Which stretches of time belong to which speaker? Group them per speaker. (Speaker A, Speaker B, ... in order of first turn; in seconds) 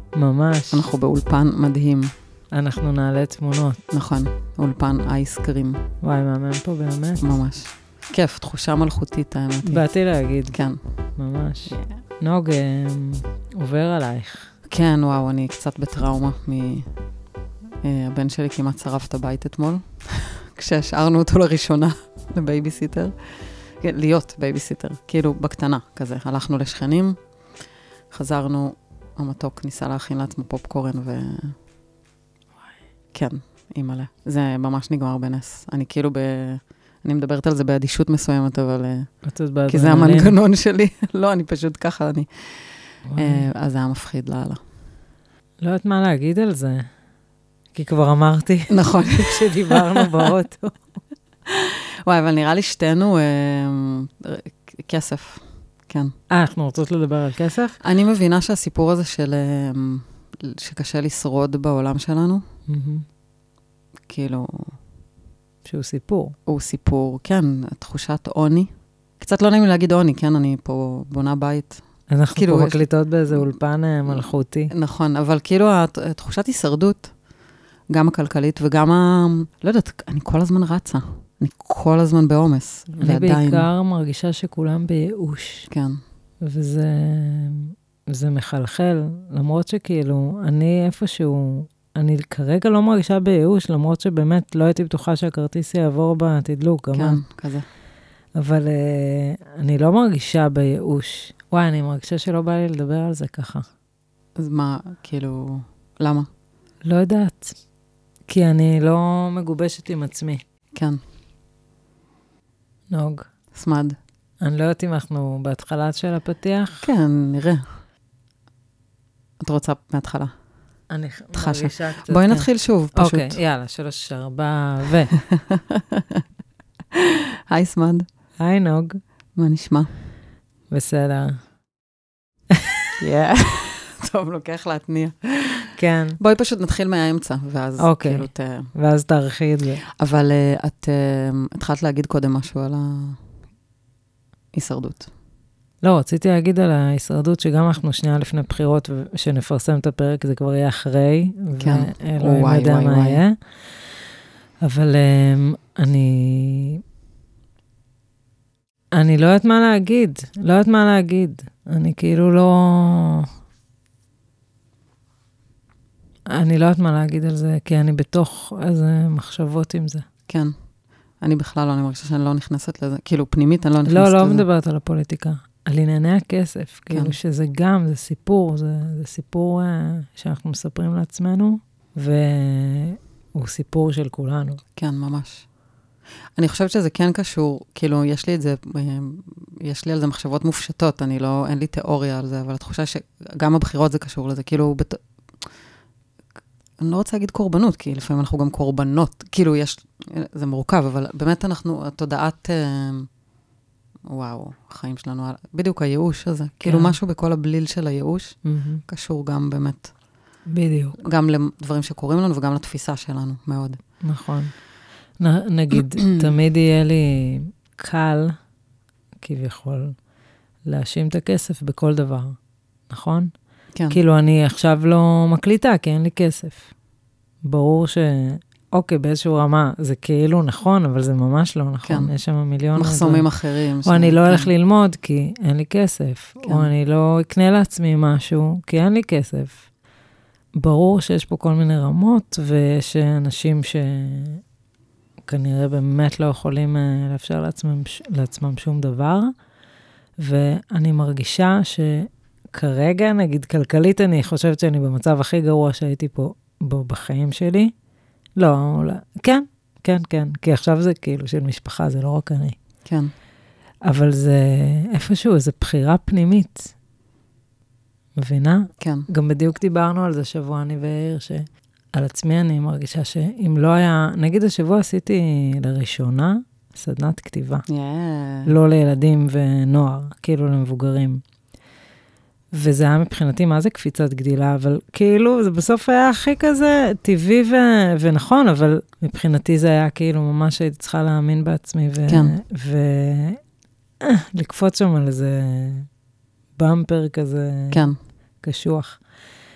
Speaker A: 0.1-0.8, 2.5-3.8, 6.0-7.2, 9.6-10.6, 11.2-14.5, 39.2-40.4, 43.1-43.4, 45.6-46.9, 47.7-50.8, 56.3-57.8, 62.7-63.0, 65.6-66.3, 72.1-74.7, 83.0-85.7, 86.4-97.2, 98.3-103.7, 106.8-107.5, 108.3-110.4, 112.9-113.2, 114.4-116.8, 120.9-125.1, 128.4-129.0, 130.7-131.4, 135.8-136.2, 137.8-139.8, 145.8-154.1, 154.6-156.8, 158.9-163.3, 166.3-170.0, 173.9-184.6, 206.6-206.9, 208.4-208.8, 210.5-211.0, 214.0-214.5, 215.2-218.3, 219.2-219.9, 220.6-222.3, 222.9-223.3, 223.9-226.7, 227.4-233.3, 233.8-239.6, 240.6-244.4, 245.2-249.3, 250.2-257.7, 258.4-262.6, 263.8-266.7, 268.2-277.6, 278.4-281.2, 282.5-293.4, 294.0-295.9, 296.6-297.9, 298.4-299.0
Speaker B: 0.7-2.1, 3.9-5.8, 7.2-9.8, 10.5-10.8, 11.7-12.0, 14.7-16.9, 17.8-23.1, 23.8-27.2, 28.1-31.5, 33.1-39.1, 39.7-42.3, 43.2-44.6, 48.7-50.3, 51.5-56.1, 57.8-62.4, 64.1-64.7, 66.5-71.8, 72.3-72.8, 74.7-77.1, 77.9-83.7, 85.7-86.0, 96.9-97.6, 104.4-106.3, 110.7-111.0, 113.5-114.0, 116.8-117.7, 119.4-120.3, 121.3-123.4, 125.3-126.2, 126.9-128.1, 129.4-129.9, 133.0-138.7, 140.0-143.2, 144.5-145.1, 151.5-153.2, 170.3-170.5, 171.2-174.4, 176.9-177.2, 184.8-185.4, 186.4-195.0, 196.8-203.1, 204.1-209.9, 211.0-213.8, 231.8-232.1, 232.7-234.5, 236.4-236.7, 262.9-263.1, 268.8-269.1, 277.7-278.5, 292.1-292.3, 297.7-298.0